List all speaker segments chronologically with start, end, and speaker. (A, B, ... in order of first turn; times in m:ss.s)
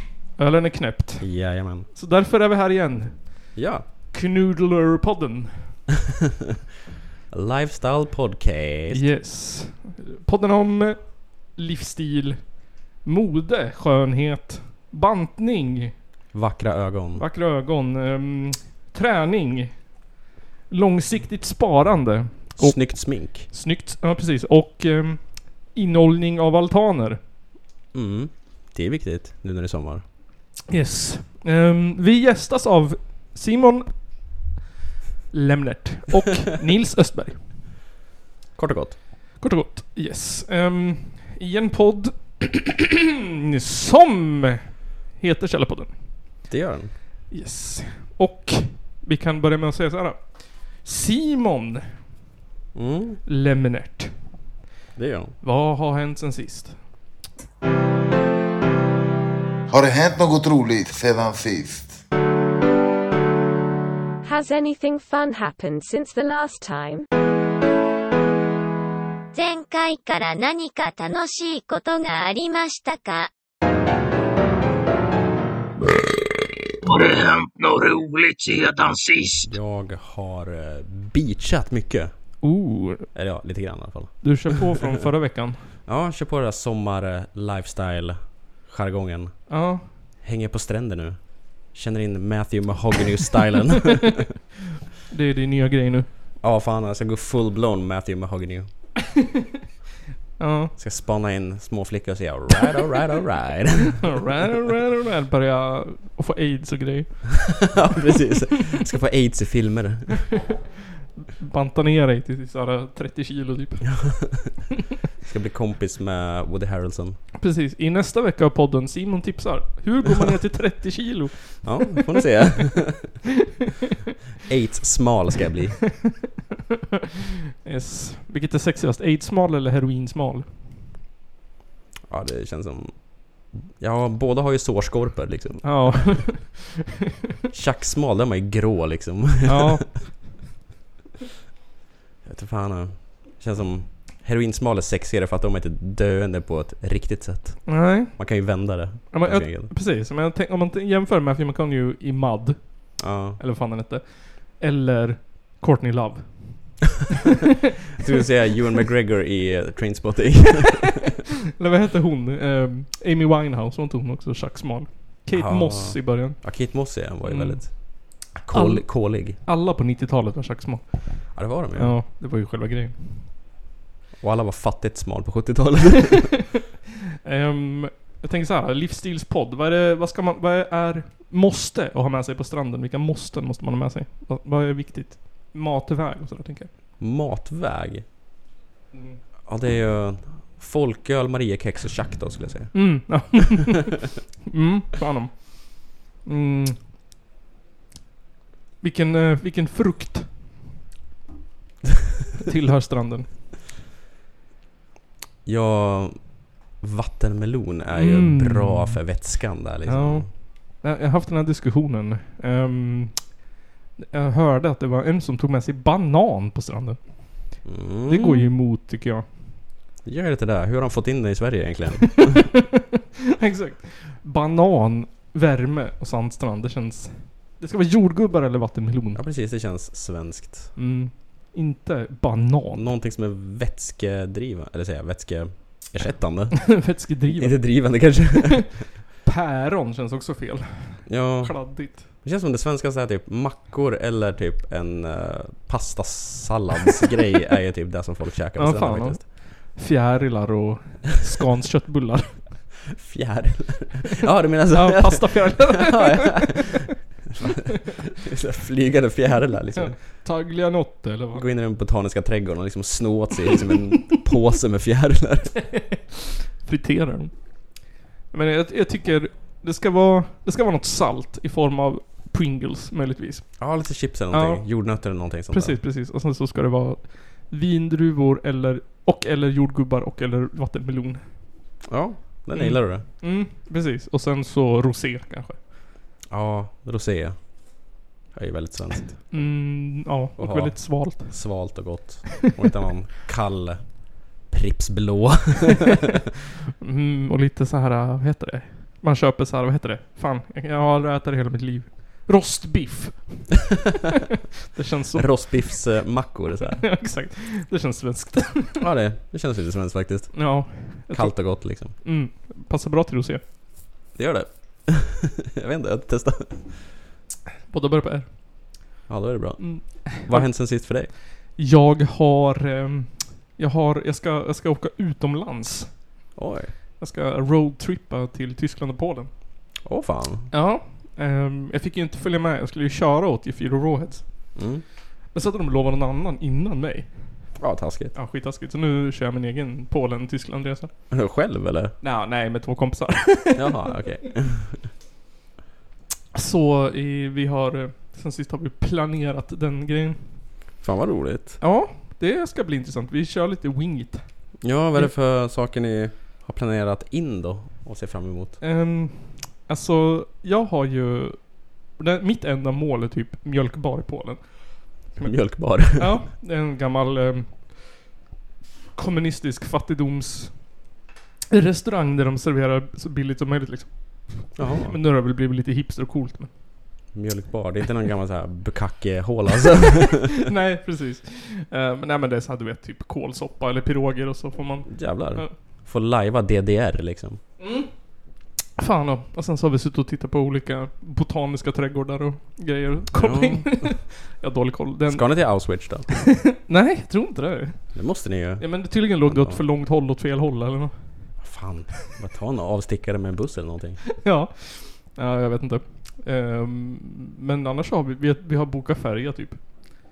0:00.4-0:03.6 A
0:01.2-0:01.9 B
0:03.6-0:03.9 B
0:04.1-0:05.8 A
0:07.3-0:09.1 B
0:08.9-0:16.0 A
0:16.3-0:17.2 B
0:17.2-0:20.0 A
0:20.7-0:27.2 A
0:22.6-0:23.5 B
0:27.9-0:30.0 B
0:30.7-0:34.2 A
0:35.3-0:37.4 A
0:38.6-0:39.0 B
0:39.4-0:42.8 A
0:43.5-0:45.9 A
0:46.5-0:46.9 B
0:47.3-0:52.1 A
0:52.7-0:53.2 B
0:53.3-0:54.2 A
0:55.0-0:55.4 B
0:55.4-0:56.8 A
0:59.7-1:02.0 C
1:04.2-1:07.1 D
1:09.3-1:13.3 E
1:16.9-1:19.5 F
1:19.4-1:22.1 B
1:22.4-1:23.1 A
1:23.1-1:24.2 B
1:24.2-1:25.7 A
1:25.8-1:34.2 B
1:29.5-1:30.0 A
1:35.1-1:36.1 A
1:36.4-1:38.7 B
1:40.4-1:40.7 A
1:40.8-1:44.5 B
1:44.0-1:47.7 A
1:47.7-1:50.3 B
1:51.2-1:54.2 A
1:54.0-1:54.5 B
1:55.2-1:57.2 B
1:57.4-2:02.0 A
2:01.6-2:03.1 B
2:04.5-2:05.8 B
2:07.6-2:10.5 A
2:12.1-2:16.2 B
2:15.6-2:16.8 A
2:17.5-2:19.8 B
2:19.5-2:20.3 A
2:22.2-2:29.7 B
2:27.7-2:28.4 A
2:29.1-2:36.9 A
2:33.0-2:33.4 B
2:38.0-2:41.0 B
2:41.6-2:53.3 A
2:45.3-2:49.4 B
2:51.3-2:52.0 B
2:54.2-2:56.3 B
2:57.2-3:06.7 A
3:07.0-3:08.0 B
3:08.9-3:09.2 A
3:09.5-3:12.7 B
3:12.7-3:16.8 A
3:18.8-3:20.5 A
3:22.4-3:23.3 A
3:25.4-3:30.3 B
3:28.0-3:29.3 A
3:29.9-3:33.4 A
3:34.0-3:39.2 A
3:37.6-3:38.5 B
3:40.0-3:42.4 B
3:42.3-3:42.8 A
3:43.4-3:49.2 A
3:49.1-3:50.7 B
3:50.8-3:52.9 A
3:52.8-3:58.8 B
3:56.7-3:58.3 A
3:59.2-4:02.1 A
4:01.1-4:09.2 B
4:08.6-4:12.6 A
4:12.9-4:16.8 B
4:14.7-4:16.7 A
4:17.4-4:20.0 B
4:19.8-4:21.4 A
4:21.3-4:25.5 B
4:25.6-4:33.7 A
4:33.6-4:35.8 B
4:34.3-4:41.4 A
4:41.8-4:43.0 B
4:42.5-4:45.6 A
4:46.3-4:49.3 B
4:49.3-4:51.7 A
4:50.4-4:56.1 B
4:56.8-5:03.6 A
5:04.7-5:05.9 A
5:05.1-5:06.8 B
5:06.7-5:08.8 A
5:08.8-5:12.0 B
5:10.3-5:13.4 A
5:14.1-5:16.8 B
5:17.7-5:18.9 A
5:19.1-5:21.1 B
5:19.6-5:26.1 A
5:26.4-5:26.7 B
5:27.0-5:29.3 A
5:29.8-5:30.5 B
5:30.5-5:34.6 A
5:34.6-5:34.8 B
5:35.3-5:37.5 A
5:37.6-5:38.1 B
5:38.1-5:40.9 A
5:41.1-5:42.0 B
5:42.0-5:43.9 A
5:43.6-5:44.8 B
5:46.3-5:50.3 A
5:50.8-5:51.6 B
5:51.6-5:55.1 A
5:54.6-5:58.6 B
5:58.6-6:08.1 A
6:05.2-6:06.2 B
6:09.0-6:10.9 A
6:11.5-6:16.6 A
6:14.6-6:15.0 B
6:17.1-6:20.3 B
6:20.4-6:25.5 A
6:24.9-6:27.4 B
6:27.6-6:27.9 A
6:28.8-6:38.0 A
6:33.1-6:34.0 B
6:35.1-6:36.3 B
6:37.9-6:39.6 B
6:38.6-6:41.3 A
6:41.4-6:44.0 B
6:44.2-6:49.6 A